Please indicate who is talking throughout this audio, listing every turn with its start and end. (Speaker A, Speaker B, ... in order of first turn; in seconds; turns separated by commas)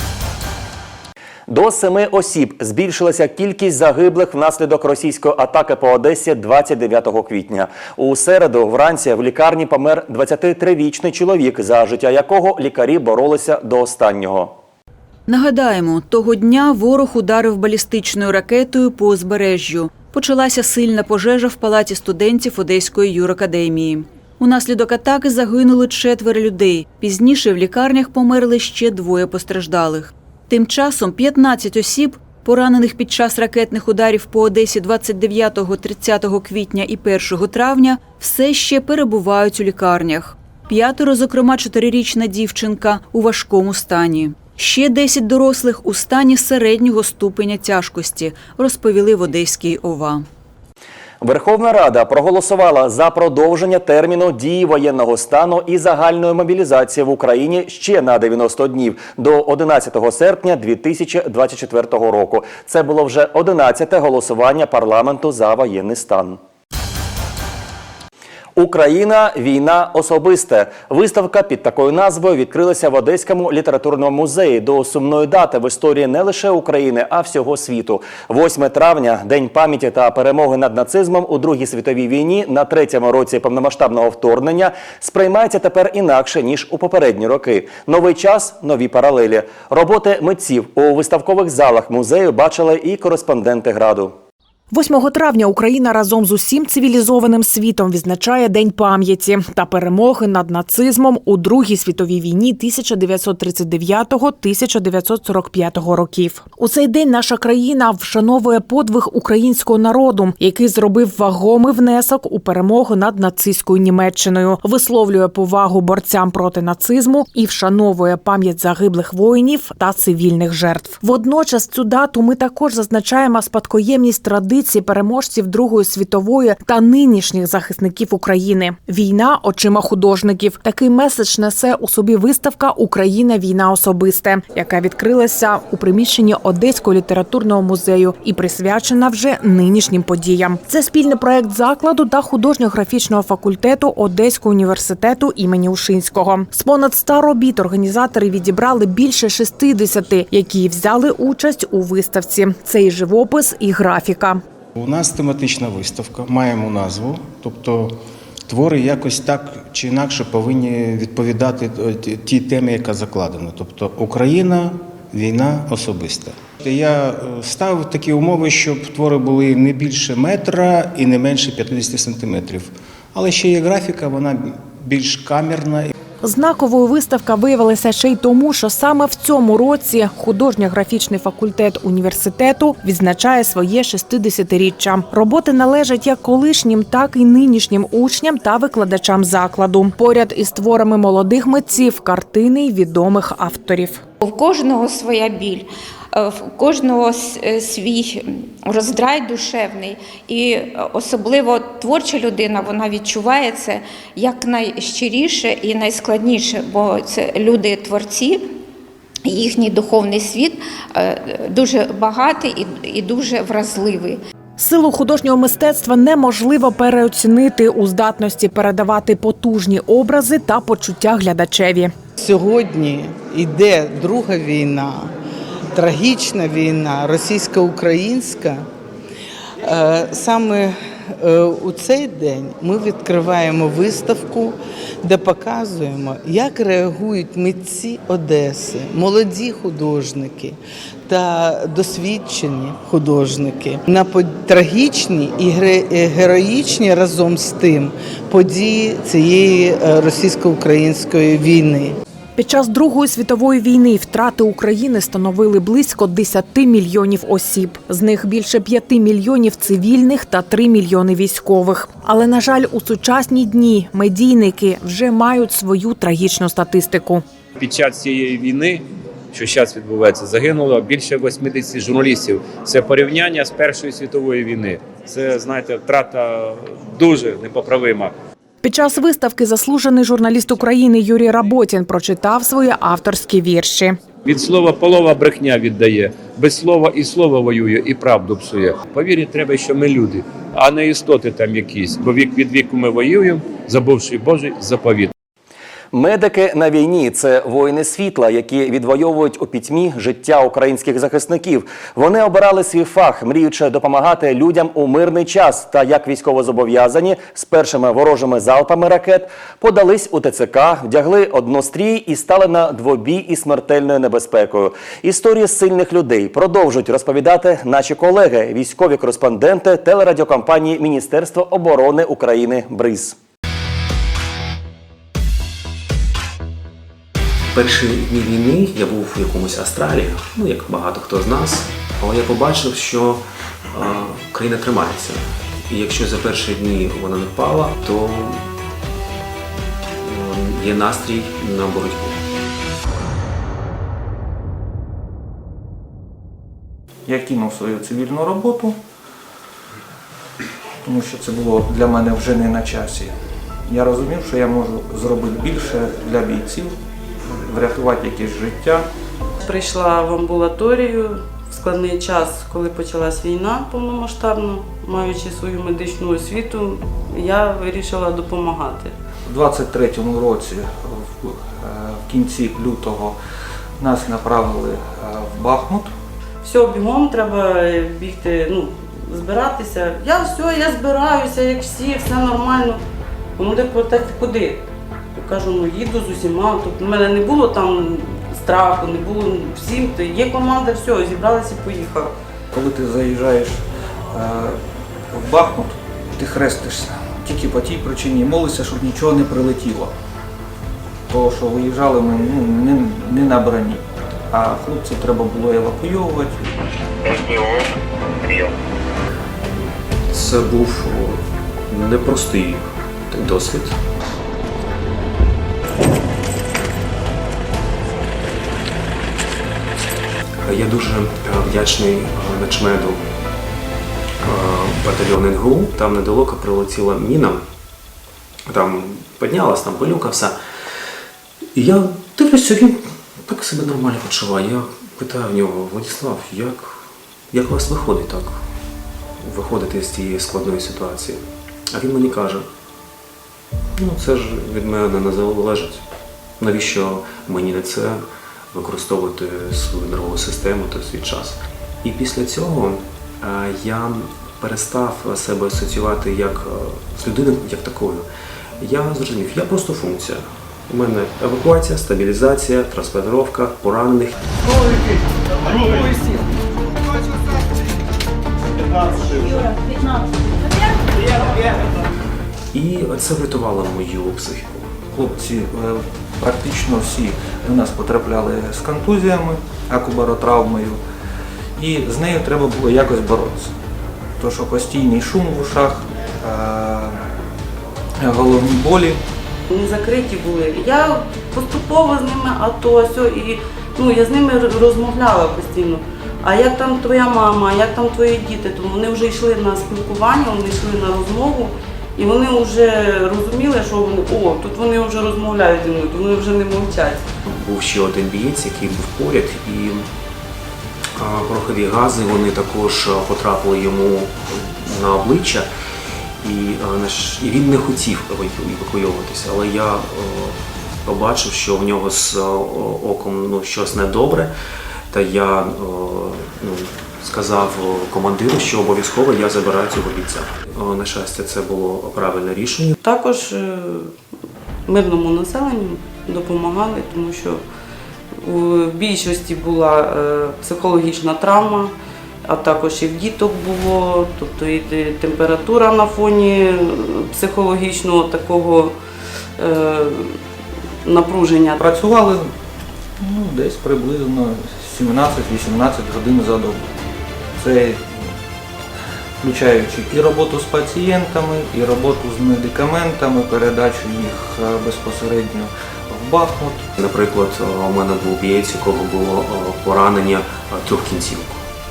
Speaker A: 1.5-14.5, Speaker B: 15.3-50.3, Speaker A: 51.2-66.4, Speaker A: 68.5-94.2, Speaker C: 94.7-154.4, Speaker D: 154.8-175.9, Speaker C: 176.2-194.0, Speaker E: 194.2-208.5, Speaker E: 209.2-214.2, Speaker C: 214.6-221.9, Speaker F: 222.2-225.1, Speaker F: 225.7-228.7, Speaker F: 229.6-252.0, Speaker C: 252.4-267.2, Speaker G: 267.6-278.1, Speaker C: 278.6-284.0, Speaker G: 284.2-295.1, Speaker A: 295.9-323.2, Speaker H: 327.5-338.4, Speaker H: 340.0-342.2, Speaker I: 347.1-348.8, Speaker I: 350.8-358.9, Speaker J: 359.4-368.9, Speaker I: 369.3-373.2, Speaker I: 373.8-375.9, Speaker J: 376.4-382.8, Speaker J: 383.4-392.1, Speaker I: 392.5-394.6, Speaker I: 395.1-399.9, Speaker I: 401.1-406.4, Speaker H: 410.1-413.8, Speaker H: 420.4-423.1, Speaker H: 424.2-427.4, Speaker H: 428.5-430.4, Speaker H: 431.6-438.4, Speaker H: 439.2-442.5, Speaker H: 443.8-445.8, Speaker H: 446.4-458.1, Speaker H: 458.6-464.2, Speaker H: 472.5-474.7, Speaker I: 474.9-480.8, Speaker I: 481.6-483.5, Speaker I: 484.2-487.0, Speaker I: 488.0-489.0, Speaker J: 489.5-507.1, Speaker H: 507.3-509.9, Speaker H: 511.0-515.5, Speaker H: 516.2-524.3, Speaker H: 524.9-532.7, Speaker J: 532.8-533.9, Speaker J: 534.7-537.4, Speaker J: 538.1-541.7, Speaker J: 542.3-548.8, Speaker J: 549.4-550.2, Speaker J: 550.8-551.6, Speaker I: 551.6-552.3, Speaker I: 553.0-556.8, Speaker I: 557.4-558.1, Speaker I: 559.2-566.7, Speaker H: 566.8-571.4